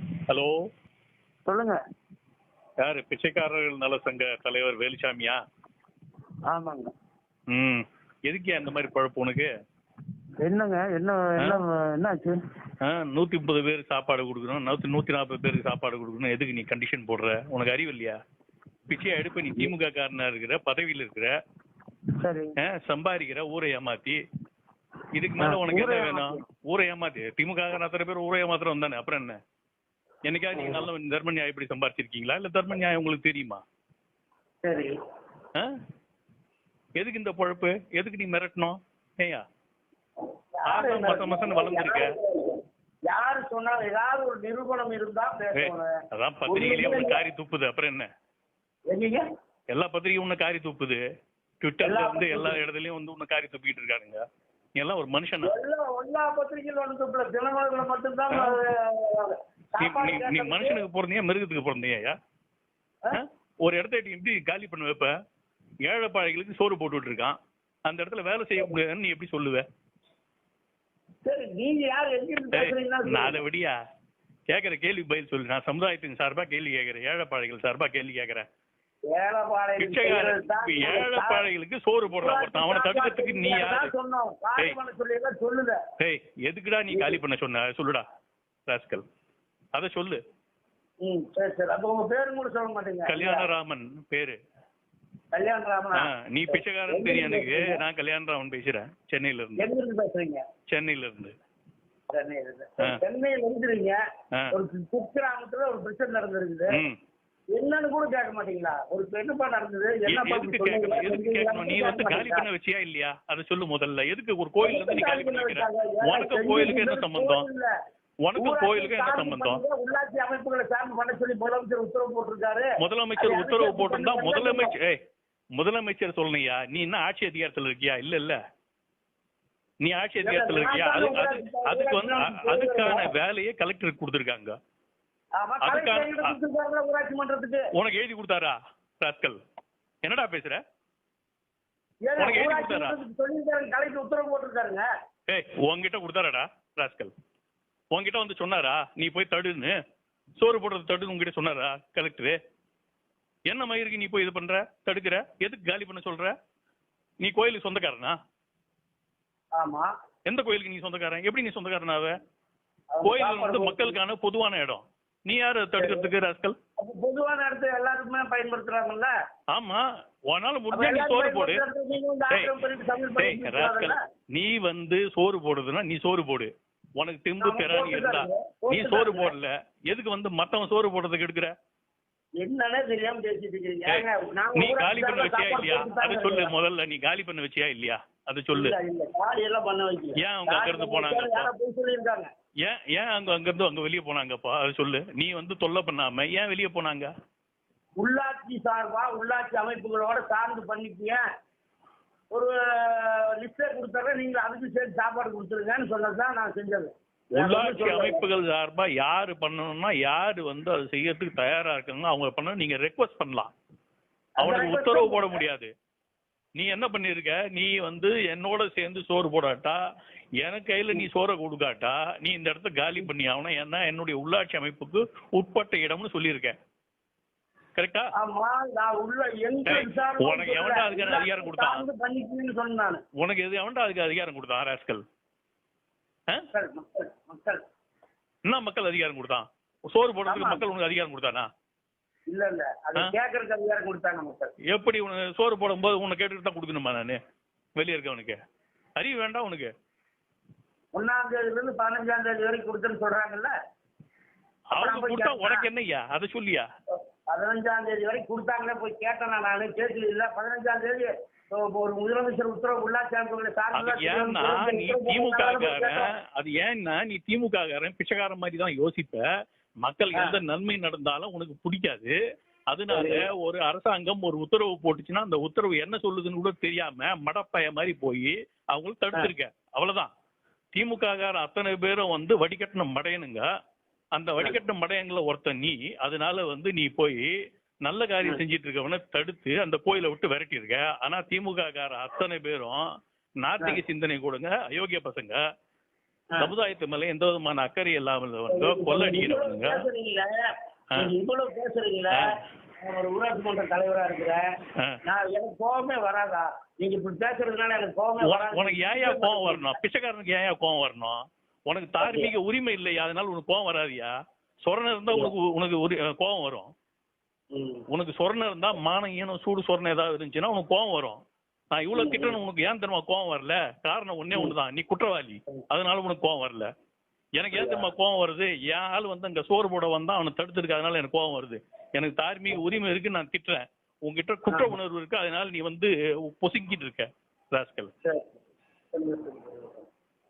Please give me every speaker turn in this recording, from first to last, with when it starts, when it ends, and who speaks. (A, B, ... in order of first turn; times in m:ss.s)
0:00.3-0:00.6 A
0:01.5-0:01.8 B
0:02.8-0:05.4 A
0:06.5-0:06.9 B
0:07.5-0:09.5 A
0:10.4-0:12.3 B
0:12.8-0:18.2 A
0:18.9-0:21.3 A
0:22.2-0:22.5 B
0:22.6-0:24.2 A
0:25.1-0:29.4 A
0:25.4-0:26.4 B
0:30.2-0:33.6 A
0:34.6-0:34.9 B
0:37.0-0:39.4 A
0:40.6-0:45.9 B
0:40.7-0:42.1 A
0:45.5-0:48.1 A
0:46.5-0:47.2 B
0:48.9-0:49.2 B
0:49.7-0:51.0 A
0:51.6-0:54.2 A
0:51.8-0:52.6 B
0:54.8-0:55.5 A
0:55.4-1:00.8 B
0:58.3-0:58.6 A
0:59.8-1:02.2 A
1:03.1-1:05.1 A
1:05.8-1:09.6 A
1:11.2-1:13.4 B
1:12.5-1:13.8 A
1:14.5-1:18.4 A
1:19.1-1:21.4 B
1:19.8-1:23.9 A
1:22.1-1:25.8 B
1:26.0-1:28.0 A
1:26.9-1:27.2 B
1:28.7-1:29.0 A
1:29.7-1:30.2 A
1:31.0-1:33.5 B
1:33.1-1:34.4 A
1:35.3-1:37.8 B
1:36.0-1:39.6 A
1:39.6-1:40.4 B
1:40.7-1:41.3 A
1:42.1-1:44.0 B
1:44.5-1:46.8 B
1:46.7-1:47.0 A
1:47.5-1:52.4 B
1:50.0-1:57.4 A
1:54.6-1:57.7 B
1:58.2-1:59.6 A
1:58.4-2:04.7 B
2:02.8-2:05.0 A
2:05.6-2:08.4 A
2:09.8-2:14.6 A
2:10.2-2:13.1 B
2:15.4-2:17.6 B
2:15.6-2:16.4 A
2:17.7-2:19.4 A
2:20.0-2:20.6 A
2:22.1-2:24.8 B
2:22.2-2:23.0 A
2:25.3-2:27.1 A
2:27.9-2:29.7 A
2:30.4-2:32.4 A
2:33.5-2:36.3 A
2:37.2-2:38.2 A
2:39.6-2:39.9 B
2:40.2-2:42.2 A
2:42.9-2:44.0 B
2:43.0-2:46.6 A
2:45.8-2:46.1 B
2:46.8-2:49.1 B
2:49.5-2:51.6 A
2:50.7-2:54.0 B
2:52.3-2:52.6 A
2:53.2-3:01.5 A
2:57.4-2:59.3 B
3:02.4-3:06.5 B
3:04.6-3:08.7 A
3:08.5-3:12.3 B
3:10.2-3:11.5 A
3:12.6-3:17.1 A
3:18.0-3:21.2 B
3:22.3-3:28.2 B
3:27.4-3:33.5 A
3:34.4-3:35.7 A
3:34.4-3:35.4 B
3:36.6-3:39.8 A
3:40.4-3:46.6 A
3:47.8-3:48.1 A
3:48.2-3:53.0 B
3:49.6-3:51.8 A
3:53.2-3:55.0 A
3:56.5-3:57.6 B
3:58.5-4:01.5 A
4:00.3-4:00.6 B
4:02.3-4:04.5 B
4:04.7-4:07.2 A
4:07.8-4:08.4 A
4:09.0-4:09.7 A
4:10.9-4:13.5 B
4:14.7-4:16.7 A
4:14.7-4:15.6 B
4:17.3-4:26.1 B
4:23.7-4:29.2 A
4:29.8-4:32.1 A
4:32.7-4:40.1 A
4:32.9-4:33.2 B
4:40.7-4:43.5 A
4:44.1-4:47.3 A
4:47.8-4:52.8 A
4:53.4-4:55.4 A
4:56.4-4:59.8 A
4:58.5-5:02.3 B
5:02.8-5:04.5 B
5:05.0-5:09.7 B
5:08.2-5:14.1 A
5:12.0-5:12.3 B
5:14.6-5:16.7 A
5:17.5-5:17.8 B
5:17.9-5:21.2 A
5:21.7-5:26.7 A
5:21.9-5:22.4 B
5:27.4-5:37.9 A
5:27.5-5:27.9 B
5:38.9-5:39.8 B